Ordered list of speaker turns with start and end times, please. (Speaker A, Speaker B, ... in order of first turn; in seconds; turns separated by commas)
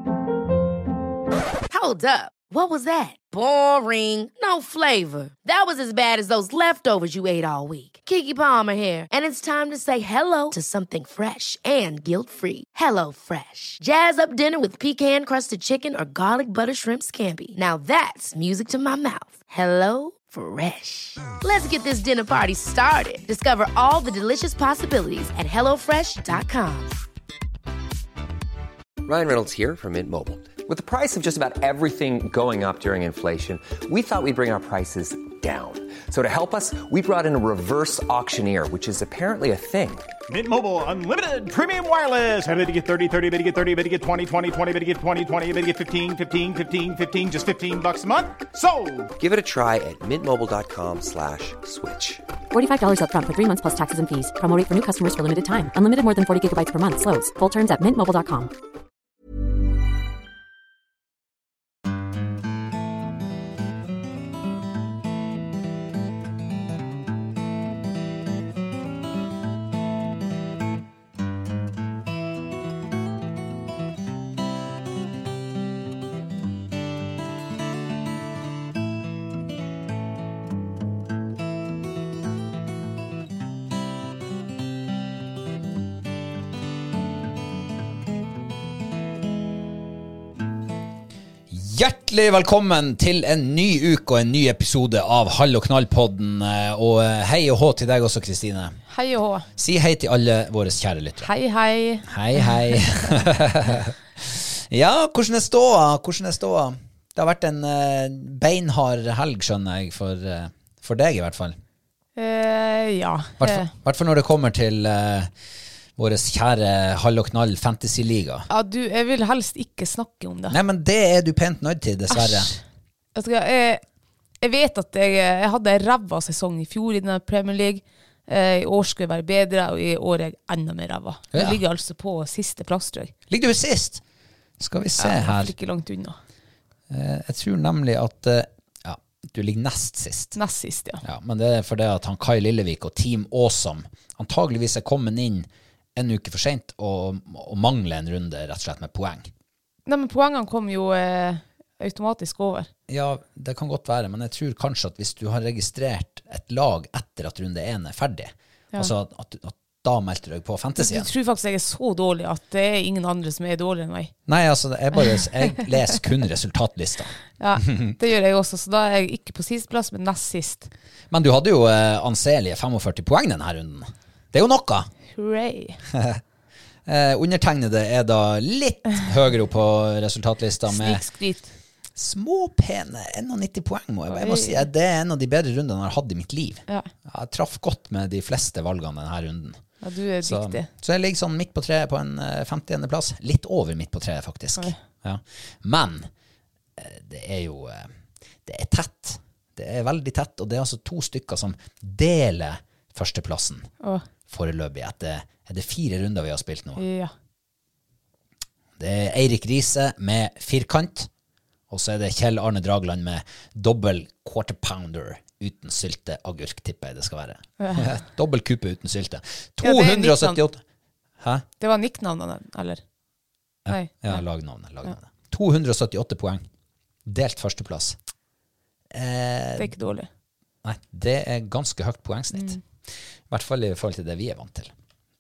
Speaker A: 1.7-26.9, Speaker B: 29.1-40.1, Speaker C: 40.3-49.1, Speaker B: 49.2-52.2, Speaker D: 52.5-58.5, Speaker E: 91.5-98.8, Speaker F: 98.9-99.5, Speaker E: 99.6-101.3, Speaker F: 101.2-102.8, Speaker E: 102.0-111.6, Speaker F: 112.2-113.7, Speaker E: 113.4-115.3, Speaker E: 116.0-118.5, Speaker F: 118.5-120.6, Speaker E: 120.5-122.5, Speaker F: 122.1-122.6, Speaker F: 123.2-123.8, Speaker F: 124.4-133.1, Speaker E: 131.3-131.6, Speaker E: 133.3-134.0, Speaker E: 134.6-135.5, Speaker F: 135.0-136.2, Speaker E: 136.9-140.4, Speaker F: 140.3-141.0, Speaker E: 141.0-149.3, Speaker F: 149.9-152.7, Speaker E: 152.9-161.1, Speaker F: 160.8-164.1, Speaker E: 164.3-167.9, Speaker F: 165.0-165.8, Speaker F: 167.4-170.7, Speaker E: 171.1-174.9, Speaker F: 175.1-175.8, Speaker E: 175.9-176.2, Speaker E: 176.9-181.0, Speaker F: 180.7-181.6, Speaker E: 182.0-189.6, Speaker F: 184.1-184.7, Speaker F: 189.8-190.7, Speaker E: 190.2-196.1, Speaker E: 196.8-197.9, Speaker E: 198.5-203.7, Speaker E: 204.3-206.8, Speaker F: 206.8-207.1, Speaker E: 208.8-211.1, Speaker E: 211.7-220.6, Speaker F: 217.6-218.0, Speaker F: 219.6-220.4, Speaker E: 221.2-221.4, Speaker F: 221.6-222.8, Speaker E: 223.7-226.4, Speaker F: 223.7-224.2, Speaker E: 227.1-228.0, Speaker E: 228.9-229.7, Speaker F: 229.6-230.1, Speaker E: 230.6-232.6, Speaker E: 233.3-234.7